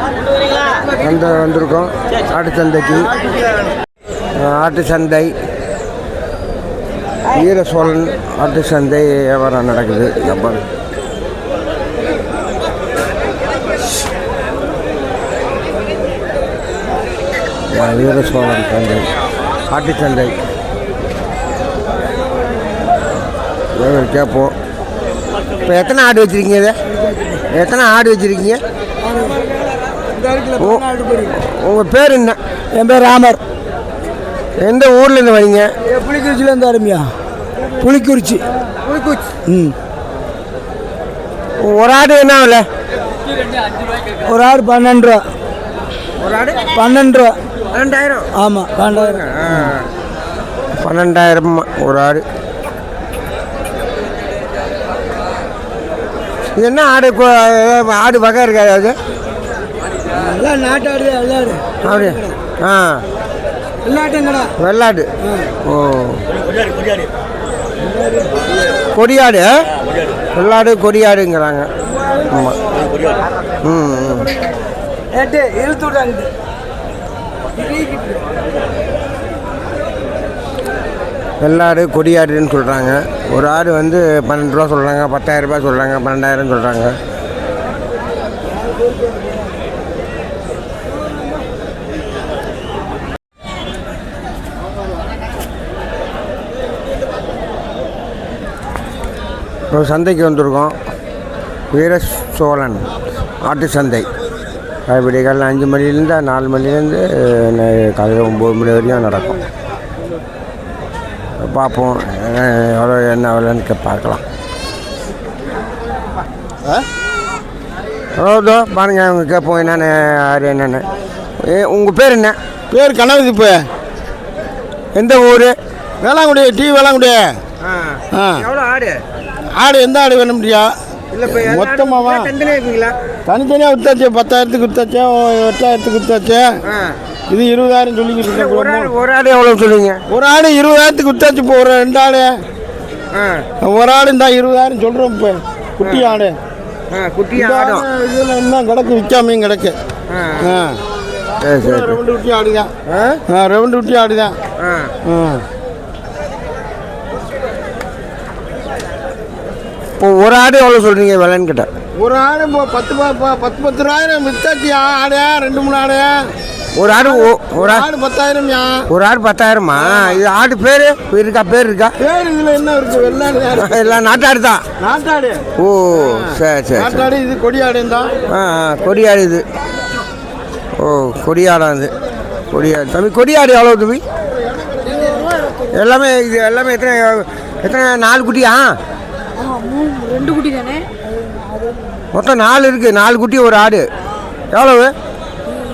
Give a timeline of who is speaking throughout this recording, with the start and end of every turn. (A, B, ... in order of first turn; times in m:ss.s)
0:00.9-0:03.1 A
0:04.4-0:05.3 A
0:07.3-0:10.6 A
0:17.7-0:19.1 A
0:19.7-0:20.4 A
0:23.8-0:24.5 A
0:25.7-0:26.8 A
0:27.5-0:28.6 A
0:29.0-0:29.5 B
0:30.1-0:31.3 B
0:30.6-0:32.4 A
0:32.7-0:33.4 B
0:34.6-0:35.7 A
0:35.9-0:37.1 B
0:37.7-0:38.5 B
0:38.8-0:39.3 A
0:39.5-0:39.8 B
0:41.6-0:42.7 A
0:44.2-0:45.3 B
0:46.2-0:46.7 A
0:46.7-0:47.4 B
0:47.7-0:48.3 A
0:48.4-0:49.7 B
0:48.9-0:49.9 A
0:50.8-0:52.2 A
0:56.6-0:59.0 A
1:00.1-1:02.3 B
1:01.8-1:03.0 A
1:03.8-1:04.5 B
1:04.6-1:05.1 A
1:05.6-1:06.3 A
1:08.9-1:09.5 A
1:10.3-1:11.7 A
1:12.2-1:12.6 A
1:13.6-1:14.3 A
1:15.1-1:16.3 B
1:21.4-1:27.0 A
1:39.7-1:40.8 A
1:41.7-1:42.9 A
1:43.4-1:44.1 A
1:44.9-1:49.4 A
1:51.4-1:54.2 A
1:58.2-2:00.9 A
2:01.4-2:02.4 A
2:02.7-2:03.7 C
2:05.0-2:05.6 A
2:06.0-2:07.4 C
2:07.6-2:09.0 A
2:08.1-2:08.4 C
2:09.5-2:10.7 C
2:11.1-2:13.0 A
2:11.3-2:12.3 C
2:13.3-2:16.6 C
2:16.7-2:17.0 A
2:17.3-2:18.9 C
2:18.3-2:20.0 A
2:20.1-2:22.4 C
2:23.1-2:23.4 A
2:23.6-2:26.4 C
2:25.8-2:26.1 A
2:26.9-2:27.9 A
2:27.4-2:29.8 C
2:30.1-2:30.5 A
2:30.4-2:30.8 C
2:31.4-2:32.0 A
2:31.5-2:32.7 C
2:32.9-2:33.2 A
2:33.3-2:34.4 C
2:34.6-2:34.9 A
2:35.0-2:35.4 C
2:40.0-2:41.7 A
2:42.0-2:46.3 C
2:46.8-2:47.9 A
2:46.9-2:48.8 C
2:48.9-2:52.0 A
2:49.8-2:50.2 C
2:52.0-2:54.0 C
2:53.5-2:54.6 A
2:54.8-2:58.1 C
2:55.6-2:57.1 A
2:58.3-2:59.4 A
3:00.8-3:01.9 A
3:02.5-3:04.0 A
3:04.6-3:05.2 C
3:05.7-3:08.7 A
3:09.4-3:10.8 B
3:12.1-3:13.9 A
3:14.5-3:14.9 A